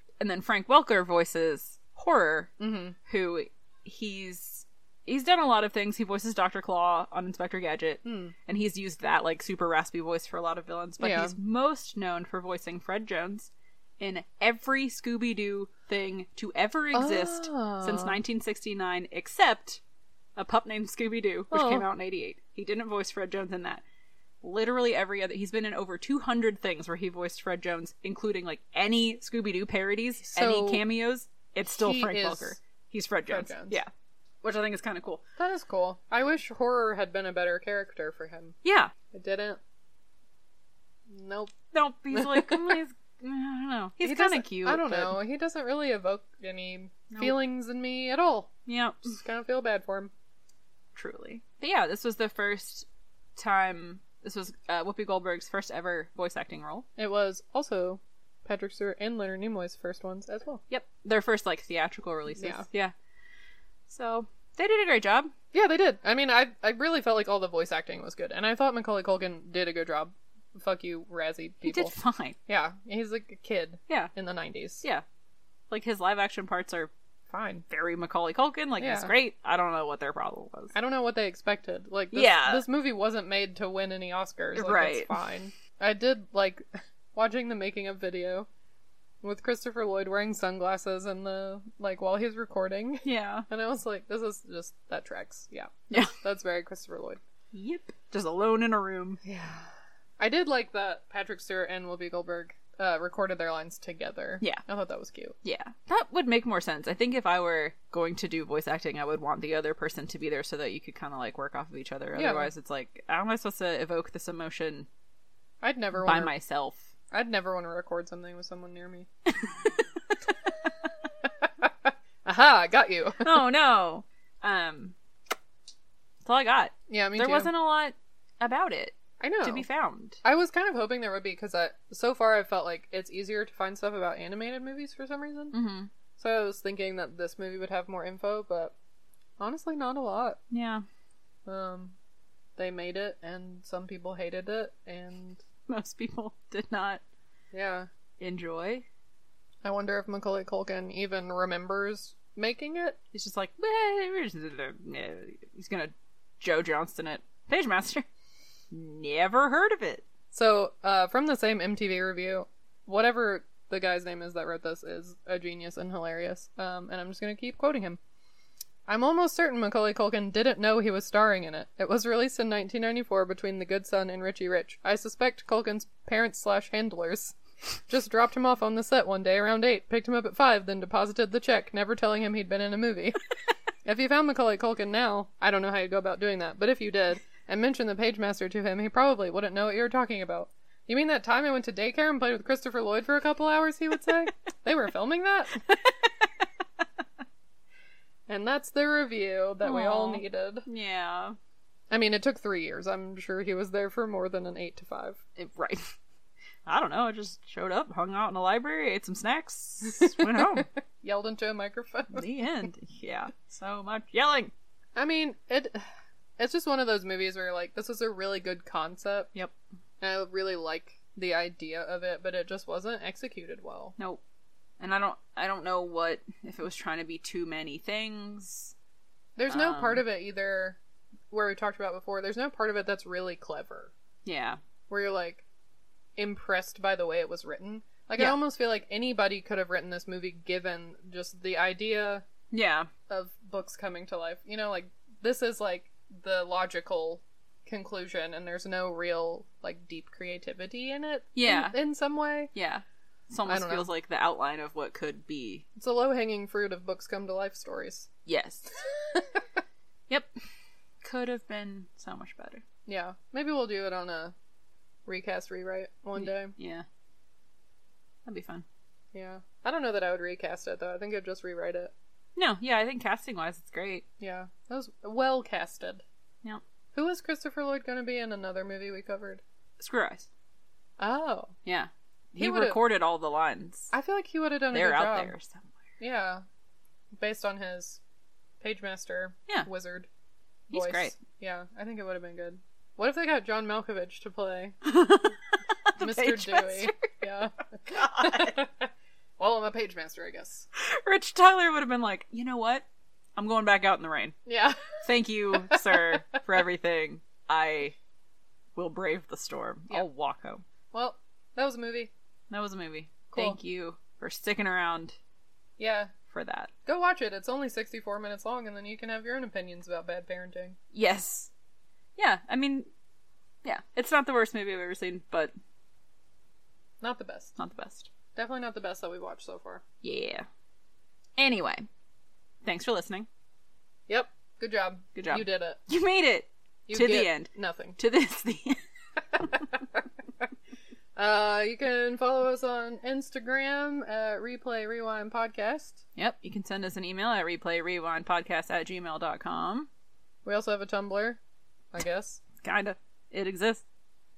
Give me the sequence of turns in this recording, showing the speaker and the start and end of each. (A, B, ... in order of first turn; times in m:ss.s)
0:00.2-0:02.5 A
0:02.6-0:03.0 B
0:03.1-0:19.8 A
0:08.0-0:08.4 B
0:11.0-0:11.4 B
0:16.9-0:18.2 B
0:20.4-0:23.8 A
0:21.5-0:21.9 B
0:24.4-0:33.9 A
0:30.3-0:30.8 B
0:31.7-0:32.6 B
0:33.3-0:33.8 B
0:34.4-0:35.2 A
0:35.4-0:38.6 B
0:38.6-0:38.9 A
0:39.1-0:39.6 B
0:41.1-0:41.5 B
0:41.7-0:45.2 A
0:42.1-0:42.8 B
0:44.0-0:48.5 B
0:47.1-0:47.4 A
0:48.7-0:49.2 A
0:49.0-0:50.1 B
0:51.0-0:56.9 A
0:57.0-1:00.6 B
1:00.7-1:02.9 A
1:02.4-1:02.6 B
1:03.9-1:05.3 A
1:05.5-1:12.0 B
1:11.6-1:12.4 A
1:12.5-1:14.8 B
1:15.7-1:16.9 A
1:17.3-1:17.6 B
1:17.7-1:20.8 A
1:18.8-1:19.1 B
1:20.7-1:26.6 B
1:22.1-1:22.6 A
1:24.6-1:25.2 A
1:27.2-1:28.5 B
1:29.2-1:37.2 B
1:33.0-1:33.5 A
1:37.5-1:39.2 A
1:39.2-1:45.4 B
1:45.4-1:54.9 A
1:52.2-1:52.5 B
1:55.6-1:56.3 B
1:56.0-1:56.9 A
1:57.1-1:59.1 B
2:01.2-2:03.3 B
2:03.2-2:05.0 A
2:06.2-2:10.2 A
2:06.9-2:07.5 B
2:09.2-2:09.7 B
2:10.2-2:15.5 B
2:15.5-2:15.9 A
2:16.2-2:18.7 B
2:19.4-2:20.4 B
2:20.5-2:20.8 A
2:21.5-2:21.9 B
2:22.6-2:25.4 B
2:25.7-2:27.0 A
2:27.5-2:27.9 B
2:28.2-2:28.9 A
2:29.6-2:33.0 B
2:33.1-2:38.1 A
2:38.7-2:40.0 A
2:40.3-2:48.0 B
2:48.9-2:57.4 B
2:57.9-3:03.2 B
3:03.8-3:15.6 B
3:18.3-3:20.7 B
3:19.6-3:21.4 A
3:21.9-3:25.2 B
3:25.4-3:25.9 A
3:26.7-3:30.7 A
3:29.9-3:32.3 B
3:32.1-3:34.5 A
3:35.0-3:35.8 B
3:36.4-3:39.3 B
3:40.0-3:44.0 B
3:44.8-3:48.8 A
3:49.4-3:50.8 B
3:49.5-3:50.0 A
3:51.3-3:53.9 B
3:54.2-3:54.6 A
3:54.9-3:55.4 B
3:56.2-4:02.2 B
4:02.5-4:02.9 A
4:03.1-4:12.5 B
4:11.4-4:11.8 A
4:12.5-4:15.6 A
4:13.5-4:13.9 B
4:15.8-4:18.1 B
4:18.3-4:18.7 A
4:21.0-4:22.6 A
4:22.9-4:24.3 B
4:25.1-4:26.5 B
4:26.2-4:26.9 A
4:28.2-4:28.6 A
4:29.1-4:31.9 B
4:32.4-4:34.0 A
4:34.2-4:36.0 B
4:36.9-4:39.4 B
4:39.8-4:40.3 A
4:41.0-4:41.5 B
4:41.6-4:43.9 A
4:42.4-4:42.8 B
4:43.9-4:45.4 B
4:44.7-4:45.7 A
4:46.0-4:46.4 B
4:47.2-4:48.0 B
4:48.6-4:50.1 B
4:50.7-4:51.2 A
4:50.7-4:54.8 B
4:54.8-4:57.1 A
4:56.0-5:00.7 B
4:57.9-4:58.6 A
5:00.8-5:02.8 A
5:03.4-5:04.4 A
5:04.5-5:06.2 B
5:05.0-5:08.0 A
5:08.8-5:10.6 A
5:10.9-5:12.1 B
5:12.5-5:15.2 A
5:13.3-5:13.6 B
5:15.8-5:16.1 B
5:16.3-5:16.7 A
5:16.9-5:20.8 B
5:20.9-5:21.5 A
5:22.2-5:22.9 A
5:23.6-5:25.6 A
5:27.0-5:27.6 B
5:27.6-5:28.1 A
5:28.4-5:29.8 B
5:30.0-5:30.5 A
5:31.4-5:31.9 A
5:32.6-5:33.3 A
5:34.1-5:35.8 B
5:35.2-5:38.8 A
5:36.9-5:38.0 B
5:39.4-5:39.6 B
5:41.2-5:46.0 B
5:46.2-5:49.9 A
5:50.4-5:51.4 B
5:51.9-5:52.4 B
5:52.6-5:53.8 A